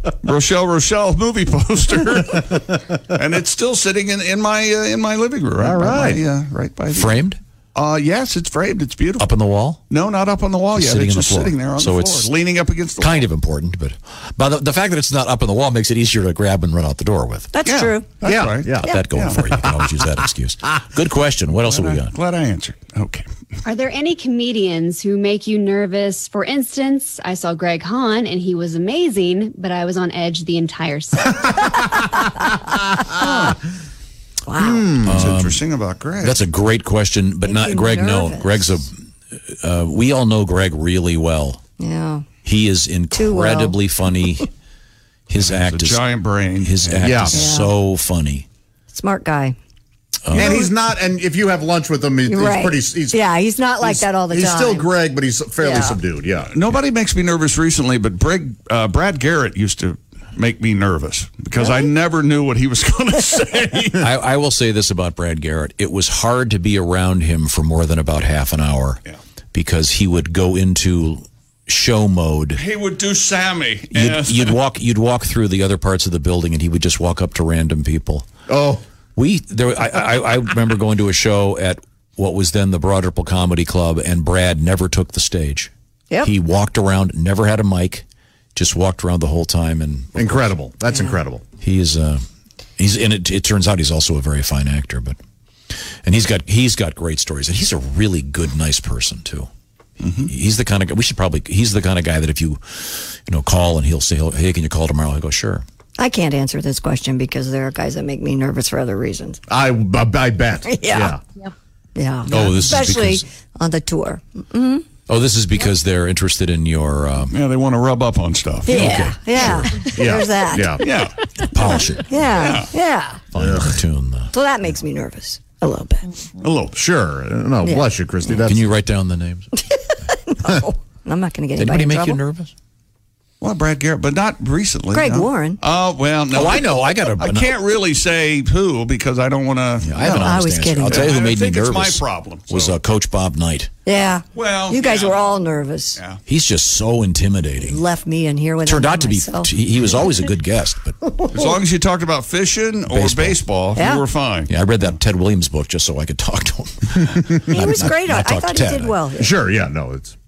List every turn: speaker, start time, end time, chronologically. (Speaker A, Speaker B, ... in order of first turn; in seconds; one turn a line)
Speaker A: 0.2-7.2
Speaker B: 5.6-6.2
Speaker C: 6.9-7.4
Speaker A: 7.8-9.3
Speaker C: 9.2-9.8
Speaker A: 9.9-13.3
Speaker C: 10.7-12.3
Speaker C: 13.0-17.5
Speaker D: 17.5-18.2
Speaker A: 17.6-19.4
Speaker B: 18.2-18.9
Speaker C: 18.8-22.1
Speaker B: 19.5-19.9
Speaker A: 21.6-23.3
Speaker E: 23.6-31.7
Speaker B: 33.1-33.5
Speaker A: 33.2-33.5
Speaker D: 33.2-33.5
Speaker D: 34.5-35.0
Speaker B: 34.6-35.4
Speaker C: 35.0-35.6
Speaker A: 35.0-36.4
Speaker C: 36.2-41.6
Speaker D: 37.5-38.6
Speaker D: 41.8-42.3
Speaker C: 42.5-44.5
Speaker D: 43.1-43.8
Speaker C: 45.3-46.0
Speaker A: 45.4-47.4
Speaker C: 46.6-48.5
Speaker B: 47.0-47.5
Speaker D: 47.3-47.7
Speaker D: 48.9-49.6
Speaker C: 50.2-50.6
Speaker B: 50.3-53.2
Speaker D: 50.4-50.7
Speaker D: 52.3-54.9
Speaker B: 53.8-56.5
Speaker D: 55.6-56.0
Speaker A: 56.5-64.1
Speaker D: 61.6-61.9
Speaker C: 64.0-69.0
Speaker C: 69.5-72.6
Speaker A: 72.5-74.6
Speaker C: 73.9-78.3
Speaker B: 78.5-78.8
Speaker C: 79.2-85.7
Speaker C: 86.2-90.5
Speaker B: 90.2-91.4
Speaker C: 91.6-92.2
Speaker C: 92.8-95.2
Speaker C: 95.7-99.5
Speaker A: 100.0-100.3
Speaker C: 100.2-105.6
Speaker D: 106.0-109.4
Speaker B: 109.5-111.2
Speaker D: 110.7-111.2
Speaker D: 112.0-114.9
Speaker C: 112.3-113.2
Speaker C: 115.1-117.4
Speaker A: 117.3-119.0
Speaker D: 118.7-120.9
Speaker C: 118.7-119.8
Speaker B: 120.0-120.8
Speaker A: 120.8-121.2
Speaker C: 121.4-122.6
Speaker D: 122.1-123.3
Speaker A: 122.3-122.7
Speaker C: 123.3-124.3
Speaker B: 123.3-123.8
Speaker D: 124.3-126.2
Speaker A: 126.4-126.8
Speaker B: 126.8-128.7
Speaker D: 127.6-127.9
Speaker C: 128.4-129.6
Speaker D: 129.6-132.2
Speaker C: 131.6-132.5
Speaker A: 133.4-142.8
Speaker D: 134.9-135.6
Speaker C: 136.3-137.6
Speaker C: 139.8-143.7
Speaker D: 140.1-141.1
Speaker D: 143.8-146.0
Speaker A: 144.3-145.2
Speaker C: 146.3-147.8
Speaker D: 147.6-149.5
Speaker C: 148.7-151.0
Speaker A: 151.3-154.5
Speaker C: 152.9-153.4
Speaker D: 153.8-154.1
Speaker C: 154.5-159.0
Speaker D: 157.5-159.4
Speaker B: 159.2-160.2